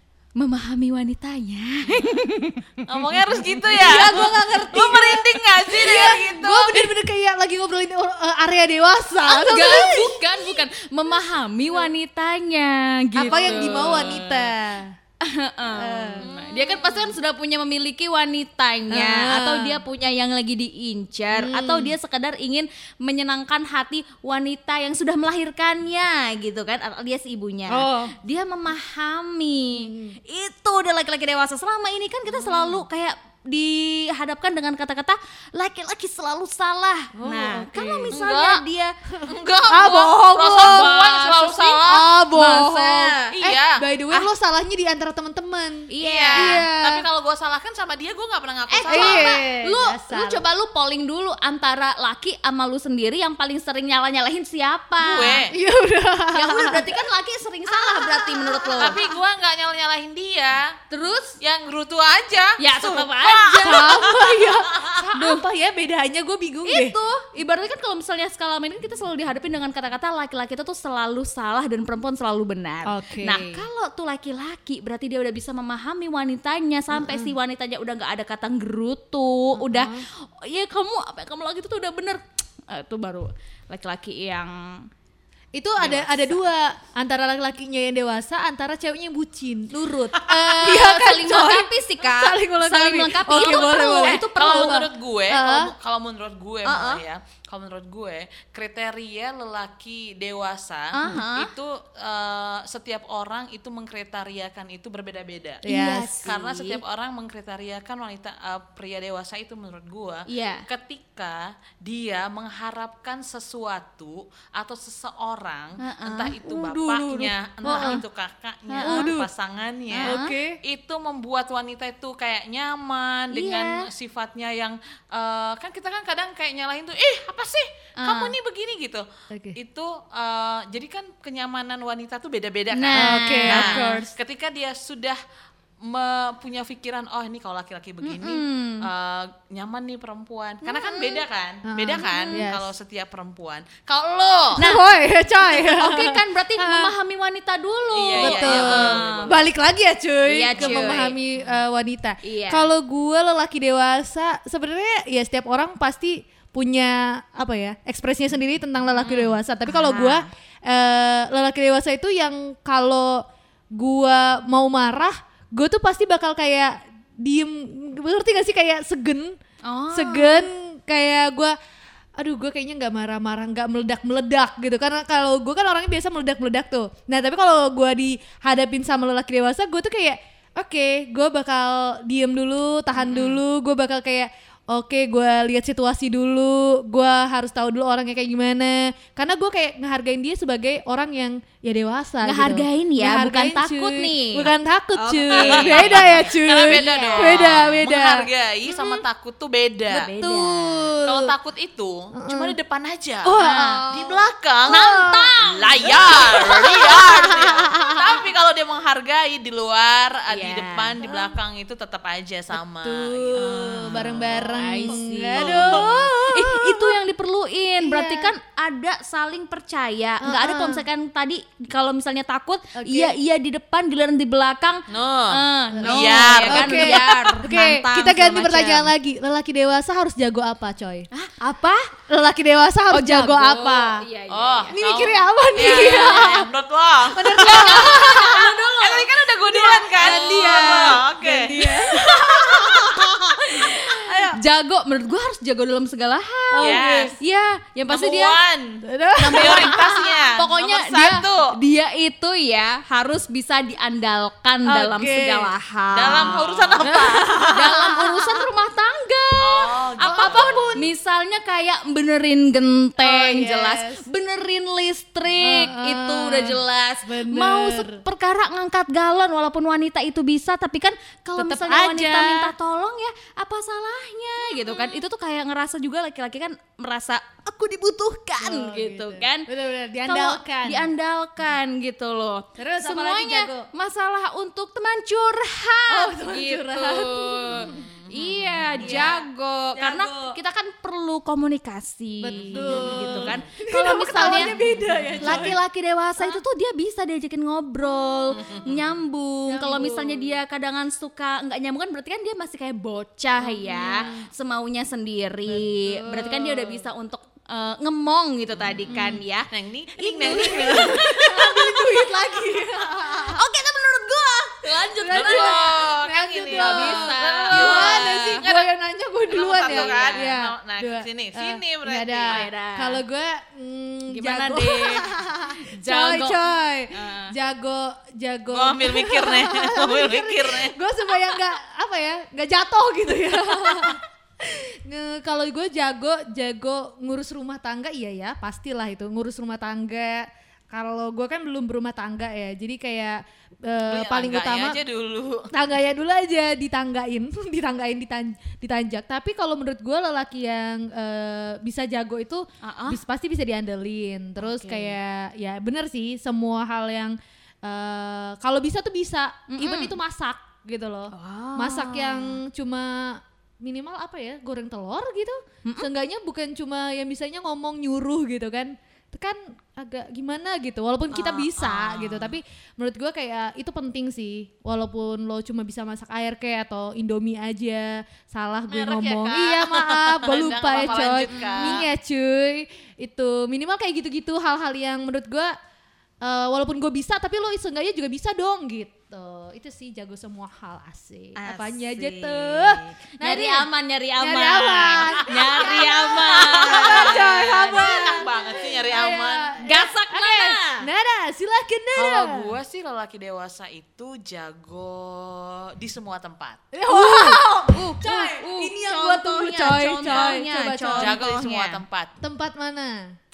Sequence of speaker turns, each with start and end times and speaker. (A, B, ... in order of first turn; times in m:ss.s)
0:00.4-0:02.6 A
0:02.9-0:06.9 B
0:03.5-0:06.2 A
0:03.7-0:10.6 C
0:09.2-0:14.5 A
0:13.2-0:14.9 C
0:13.4-0:14.1 B
0:15.2-0:39.0 A
0:15.8-0:16.3 C
0:16.2-0:17.2 B
0:18.9-0:19.8 C
0:21.3-0:22.0 C
0:27.7-0:28.1 C
0:29.8-0:30.2 C
0:32.4-0:32.7 C
0:37.2-0:38.1 C
0:38.1-0:38.6 B
0:39.2-0:40.9 C
0:39.3-0:42.1 B
0:40.6-0:43.3 A
0:41.8-0:47.0 C
0:43.3-0:43.8 B
0:45.9-0:46.6 A
0:46.0-0:49.4 B
0:48.7-0:55.4 A
0:48.9-0:50.4 C
0:55.0-0:55.5 B
0:55.5-0:57.0 C
0:56.3-0:59.0 A
0:57.7-0:59.1 C
0:58.8-1:00.8 B
1:00.9-1:01.4 A
1:01.4-1:05.0 B
1:02.6-1:04.3 A
1:03.5-1:07.0 C
1:05.1-1:05.4 A
1:06.7-1:24.9 A
1:12.9-1:13.6 C
1:16.9-1:17.3 C
1:19.6-1:20.0 C
1:25.6-1:35.7 C
1:25.8-1:26.4 B
1:30.3-1:34.9 A
1:33.4-1:45.6 B
1:36.6-1:37.0 A
1:40.9-1:41.5 A
1:45.6-1:46.3 C
1:45.7-1:46.8 A
1:46.2-2:15.2 B
1:50.3-1:50.6 A
1:55.8-1:56.4 A
1:56.4-1:58.0 C
1:57.7-1:58.0 A
1:58.7-1:59.1 A
1:58.8-1:59.3 C
1:59.9-2:00.3 A
2:00.0-2:00.6 C
2:03.3-2:03.9 A
2:08.0-2:08.3 A
2:09.3-2:09.6 C
2:12.7-2:14.1 A
2:13.0-2:14.1 C
2:15.8-2:24.6 B
2:18.0-2:18.9 A
2:20.6-2:21.2 A
2:21.7-2:22.7 C
2:22.0-2:22.4 A
2:24.6-2:26.9 C
2:25.5-2:29.3 A
2:27.9-2:29.4 B
2:28.2-2:43.2 C
2:30.3-2:31.2 A
2:30.5-2:31.0 B
2:32.2-2:32.7 A
2:39.0-2:40.3 A
2:43.8-2:49.4 C
2:49.6-2:50.5 A
2:49.9-2:51.6 C
2:52.2-3:19.0 C
3:12.2-3:17.6 A
3:15.3-3:20.1 B
3:19.9-3:20.9 A
3:20.2-3:21.3 C
3:21.0-3:23.4 B
3:22.2-3:22.6 C
3:23.2-3:23.9 C
3:23.4-3:27.3 A
3:23.9-3:24.8 B
3:24.7-3:28.0 C
3:25.4-3:36.1 B
3:30.3-3:31.0 A
3:31.0-3:31.3 C
3:32.8-3:37.0 C
3:33.4-3:48.9 A
3:37.8-3:38.3 C
3:40.2-3:40.8 C
3:42.8-3:43.1 C
3:44.9-3:47.4 B
3:45.8-3:51.1 C
3:51.1-3:51.9 A
3:52.1-3:54.0 C
3:52.9-3:54.8 A
3:54.3-4:03.2 B
3:54.7-3:56.5 C
3:55.6-3:56.3 A
3:57.1-3:58.5 C
3:57.4-3:59.1 A
3:59.5-4:04.4 C
4:00.3-4:00.7 A
4:02.2-4:08.4 A
4:06.5-4:07.2 C
4:06.6-4:07.1 B
4:07.9-4:11.5 B
4:08.8-4:09.8 C
4:09.3-4:16.8 A
4:14.7-4:15.5 C
4:15.9-4:17.8 B
4:16.8-4:18.4 C
4:17.5-4:39.5 A
4:19.4-4:20.7 B
4:20.0-4:20.9 C
4:23.0-4:24.0 C
4:25.4-4:28.0 C
4:31.4-4:32.5 C
4:34.5-4:35.0 C
4:38.4-4:40.9 C
4:40.1-4:54.6 A
4:42.6-4:43.7 C
4:45.9-4:47.9 C
4:47.7-4:49.1 B
4:48.8-4:49.2 C
4:49.8-4:50.4 C
4:52.2-4:55.6 C
4:52.5-4:53.4 B
4:55.0-4:55.6 B
4:55.2-5:15.6 A
4:58.3-4:58.9 B
4:59.5-5:00.4 C
5:03.4-5:04.3 C
5:03.8-5:04.1 B
5:05.5-5:06.8 C
5:08.6-5:11.1 B
5:08.9-5:09.2 C
5:10.2-5:13.4 C
5:15.0-5:44.8 C
5:15.0-5:18.7 B
5:16.6-5:18.4 A
5:19.3-5:22.5 B
5:19.6-5:20.2 A
5:22.3-5:23.0 A
5:24.1-5:27.3 A
5:28.5-5:30.8 B
5:43.9-5:45.5 B
5:45.5-6:25.5 C
5:52.6-5:53.0 A
5:54.4-5:55.0 A
5:59.5-6:00.0 A
6:01.1-6:02.4 A
6:11.2-6:11.6 A
6:11.7-6:12.1 B
6:18.7-6:21.8 B
6:21.3-6:21.8 A
6:26.2-6:33.7 C
6:31.4-6:38.2 A
6:34.2-6:42.5 C
6:35.0-6:39.5 B
6:39.6-6:40.9 A
6:42.0-6:46.6 B
6:46.7-6:51.2 C
6:46.9-6:51.8 A
6:50.0-6:50.4 B
6:50.9-6:52.1 B
6:52.2-6:53.0 C